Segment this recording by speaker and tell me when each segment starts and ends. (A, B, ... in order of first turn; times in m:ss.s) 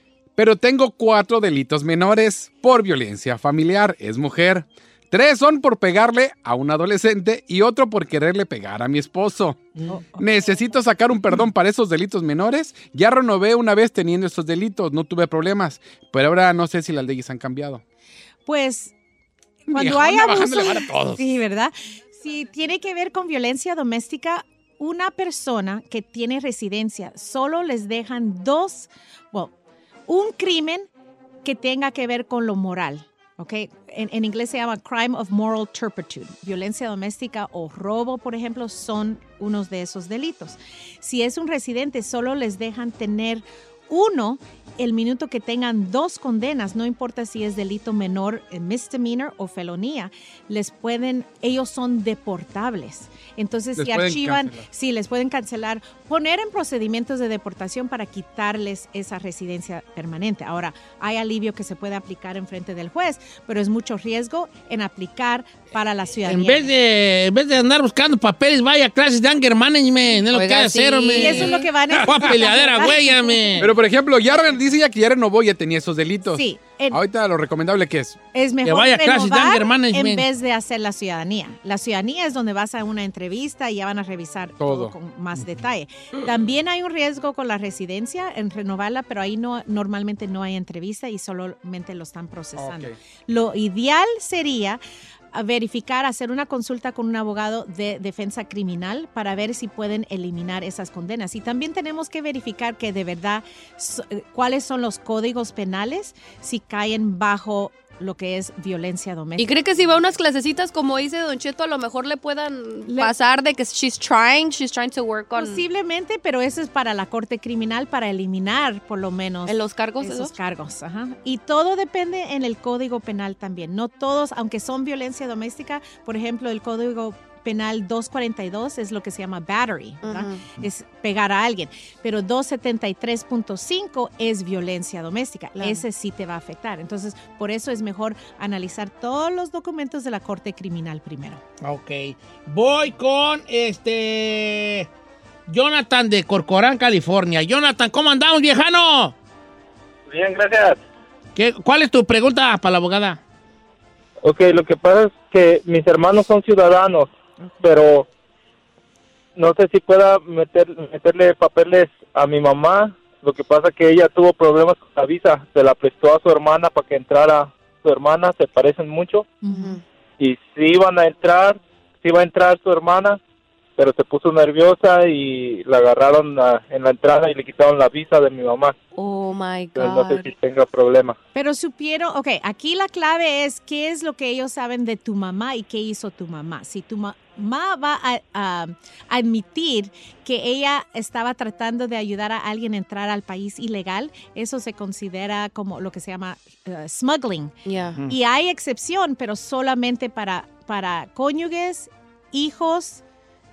0:00.4-0:17.8 A
0:09.9-0:10.7 B
0:18.4-0:18.9 B
0:19.7-0:29.5 B
0:19.7-0:21.3 C
0:30.1-0:30.9 B
0:31.4-1:06.7 B
0:53.8-0:54.6 A
1:06.2-1:13.7 C
1:10.3-1:11.7 D
1:11.2-1:13.7 B
1:13.6-1:18.2 A
1:16.3-1:17.0 B
1:18.3-1:34.8 B
1:18.6-1:20.2 C
1:24.6-1:24.9 A
1:32.6-1:32.9 A
1:35.3-1:49.5 B
1:49.4-1:55.6 D
1:52.9-1:53.1 B
1:55.3-2:21.4 B
1:59.4-2:00.3 D
2:10.0-2:10.4 D
2:15.5-2:15.8 D
2:21.6-2:24.9 C
2:25.5-2:29.1 C
2:30.1-2:30.8 E
2:31.4-2:33.2 C
2:34.2-2:38.1 E
2:39.4-2:49.3 E
2:49.4-2:49.8 B
2:49.5-2:49.8 D
2:50.2-2:53.2 E
2:53.8-2:58.8 E
2:59.0-3:00.3 D
2:59.8-3:01.2 E
3:01.3-3:17.5 B
3:17.6-3:18.0 D
3:18.0-3:23.0 B